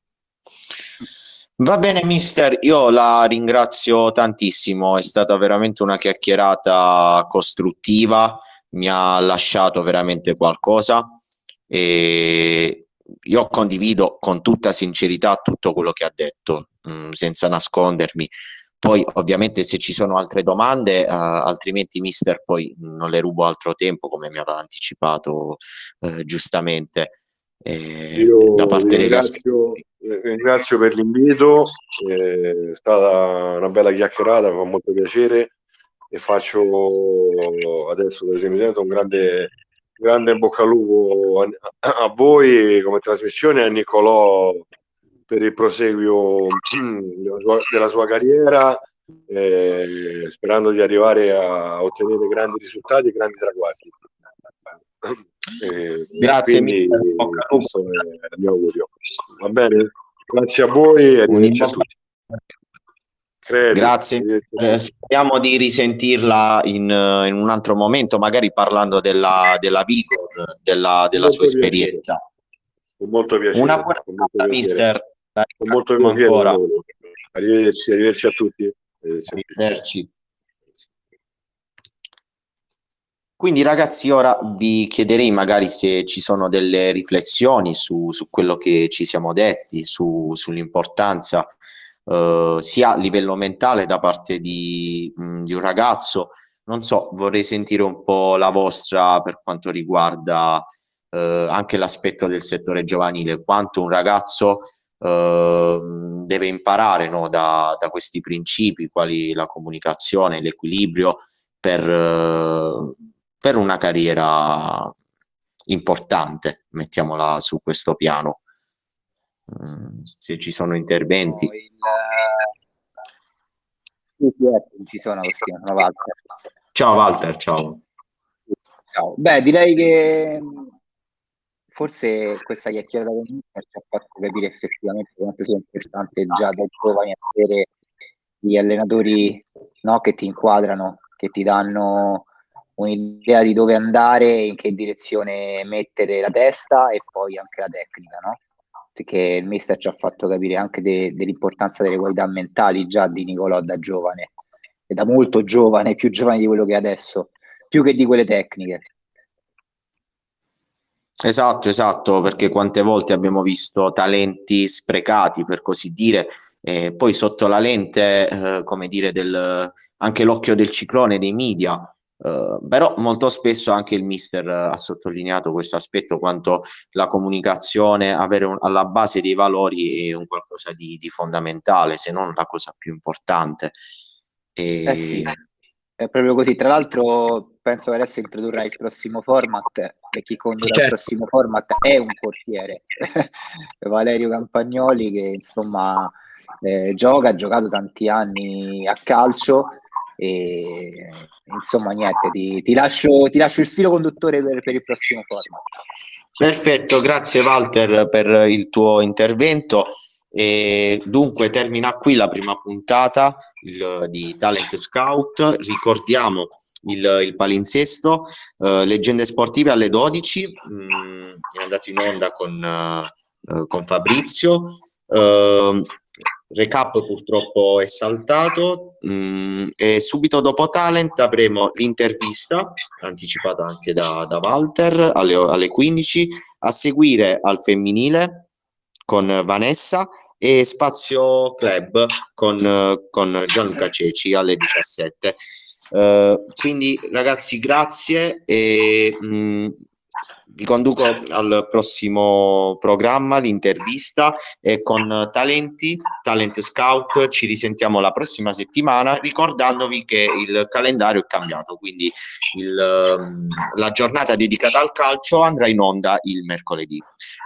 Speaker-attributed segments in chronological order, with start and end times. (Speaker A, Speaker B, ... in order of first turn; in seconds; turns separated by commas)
Speaker A: 1.6-29.4, Speaker B: 28.1-35.5, Speaker B: 36.1-44.6, Speaker B: 45.3-53.9, Speaker B: 55.0-61.9, Speaker A: 56.2-57.7, Speaker A: 61.3-61.9, Speaker B: 63.4-64.8, Speaker A: 63.7-72.2, Speaker B: 71.1-72.0, Speaker B: 73.0-74.8, Speaker A: 73.5-76.6, Speaker B: 75.6-79.5, Speaker A: 79.3-80.1, Speaker A: 83.4-91.5, Speaker A: 92.1-114.9, Speaker A: 115.7-118.4, Speaker A: 119.5-121.5, Speaker C: 121.3-122.5, Speaker C: 124.2-126.2, Speaker A: 126.7-127.8, Speaker C: 128.9-130.7, Speaker C: 131.7-137.7, Speaker C: 138.4-148.4, Speaker C: 148.9-154.3, Speaker C: 154.9-158.8, Speaker A: 161.2-183.8, Speaker A: 184.6-185.3, Speaker C: 184.9-185.4, Speaker C: 186.0-205.6, Speaker A: 190.6-191.0, Speaker A: 206.4-226.0, Speaker A: 226.5-238.5, Speaker A: 239.1-245.4, Speaker A: 245.9-249.8, Speaker A: 250.6-267.0